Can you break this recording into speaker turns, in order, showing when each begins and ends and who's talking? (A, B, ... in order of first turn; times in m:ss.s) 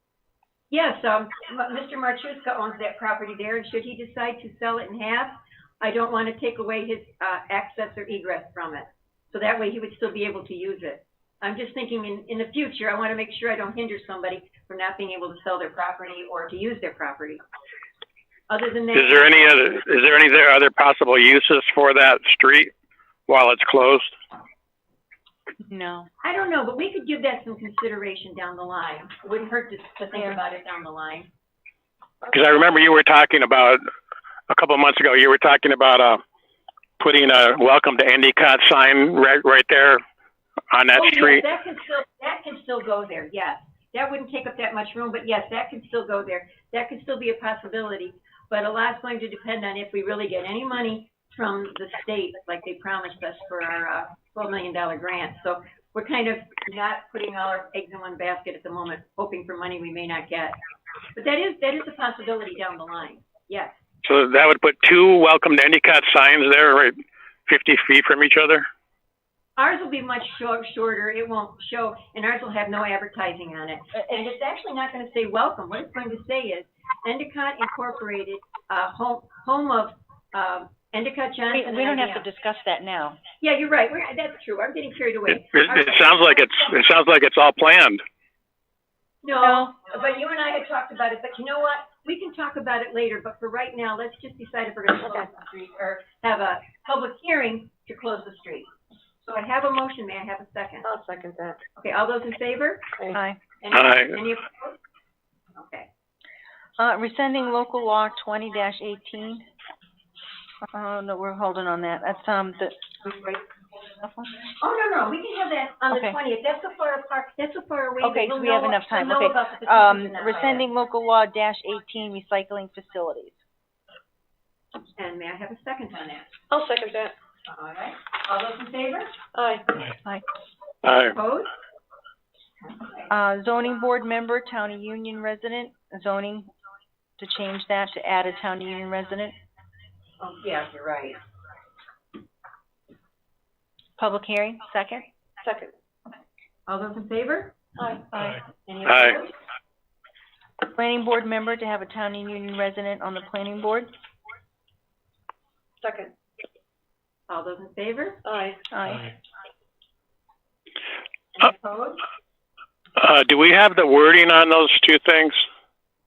0:00.7-0:17.4 A
0:18.5-0:19.6 A
0:18.9-0:22.7 B
0:23.3-0:24.1 B
0:25.6-0:26.1 C
0:26.2-0:31.3 A
0:32.3-0:33.8 B
0:34.5-0:36.2 B
0:37.0-0:40.0 B
0:40.7-0:41.4 B
0:40.9-1:00.6 A
1:01.1-1:03.8 A
1:04.0-1:08.7 B
1:09.6-1:22.2 A
1:13.9-1:14.2 C
1:21.5-1:23.2 C
1:23.4-1:26.5 A
1:25.3-1:28.0 B
1:29.2-1:38.7 A
1:29.4-1:29.7 C
1:39.2-1:40.9 A
1:40.8-1:41.6 D
1:41.8-1:42.9 A
1:43.1-1:43.4 C
1:43.6-1:44.8 A
1:43.7-1:44.2 B
1:45.5-1:45.9 A
1:46.8-1:49.4 C
1:50.7-1:54.3 C
1:54.6-2:00.6 A
1:55.9-1:56.2 C
1:58.0-2:03.4 C
2:05.0-2:06.4 A
2:06.5-2:07.1 D
2:07.4-2:09.2 A
2:09.3-2:09.7 D
2:10.8-2:11.2 B
2:11.1-2:11.5 A
2:12.6-2:13.1 A
2:13.1-2:16.5 C
2:17.2-2:19.3 C
2:20.2-2:21.2 A
2:24.0-2:25.0 C
2:25.4-2:25.7 D
2:26.7-2:27.6 A
2:27.8-2:28.1 D
2:28.6-2:29.3 A
2:28.8-2:29.2 B
2:30.6-2:33.9 C
2:35.8-2:36.1 D
2:37.3-2:38.2 A
2:38.2-2:38.6 D
2:38.7-2:39.0 C
2:41.4-2:42.0 A
2:43.0-2:45.4 B